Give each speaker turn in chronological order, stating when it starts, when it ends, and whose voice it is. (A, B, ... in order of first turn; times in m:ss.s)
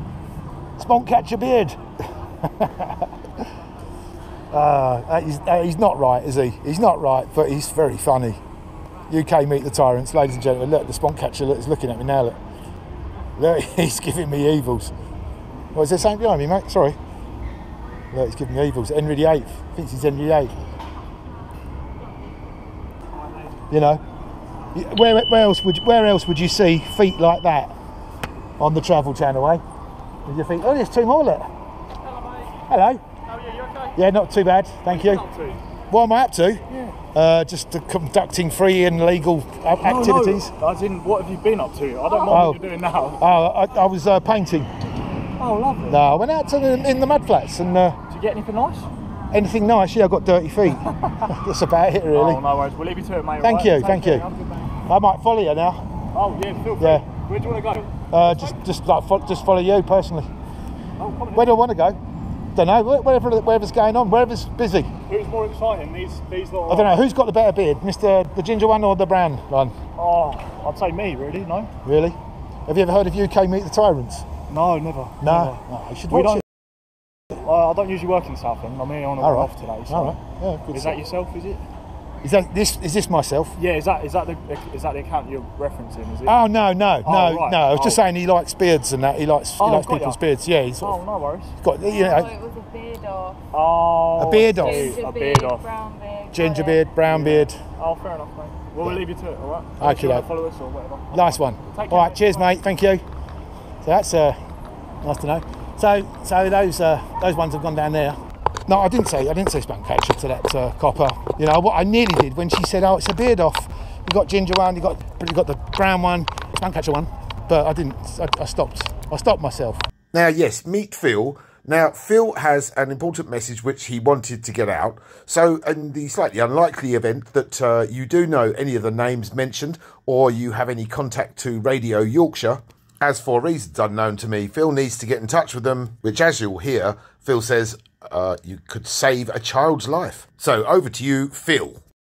0:00.8-0:01.8 A
0:02.4-0:03.1 A
0:04.5-0:08.4 A
0:09.1-0:12.4 A
0:13.4-0:14.9 A
0:15.7-0:17.0 A
0:18.1-0:20.5 A
0:23.7-0:24.0 A
0:24.7-0:27.7 A
0:28.6-0:29.6 A
0:30.2-0:31.5 A
0:32.7-0:33.0 A
0:33.4-0:33.9 B
0:34.0-0:35.2 A
0:34.9-0:35.6 B
0:35.9-0:40.5 A
0:39.8-0:43.2 B
0:42.3-0:42.6 A
0:43.2-0:44.7 A
0:45.4-0:46.0 B
0:45.9-0:48.0 A
0:48.1-0:48.9 B
0:49.3-0:52.4 A
0:52.1-0:54.7 B
0:53.4-0:54.2 A
0:54.8-0:55.8 A
0:56.1-0:58.4 B
0:56.8-0:57.0 A
0:58.1-1:00.3 A
1:01.0-1:01.5 B
1:01.3-1:02.0 A
1:02.5-1:04.9 A
1:05.1-1:07.0 B
1:06.7-1:09.7 A
1:10.0-1:11.7 B
1:11.8-1:14.3 A
1:14.5-1:16.4 B
1:15.2-1:16.4 A
1:17.4-1:20.2 B
1:19.2-1:21.0 A
1:20.7-1:21.6 B
1:22.2-1:23.6 A
1:23.6-1:26.4 B
1:26.2-1:31.0 A
1:27.0-1:28.0 B
1:29.6-1:30.2 B
1:30.8-1:31.5 B
1:31.6-1:32.4 A
1:31.8-1:33.4 C
1:33.5-1:35.7 B
1:34.2-1:35.0 A
1:34.6-1:36.9 C
1:36.3-1:37.6 A
1:37.0-1:42.5 B
1:39.8-1:40.3 A
1:41.1-1:43.0 A
1:43.8-1:44.4 A
1:45.0-1:59.8 A
2:00.1-2:21.8 D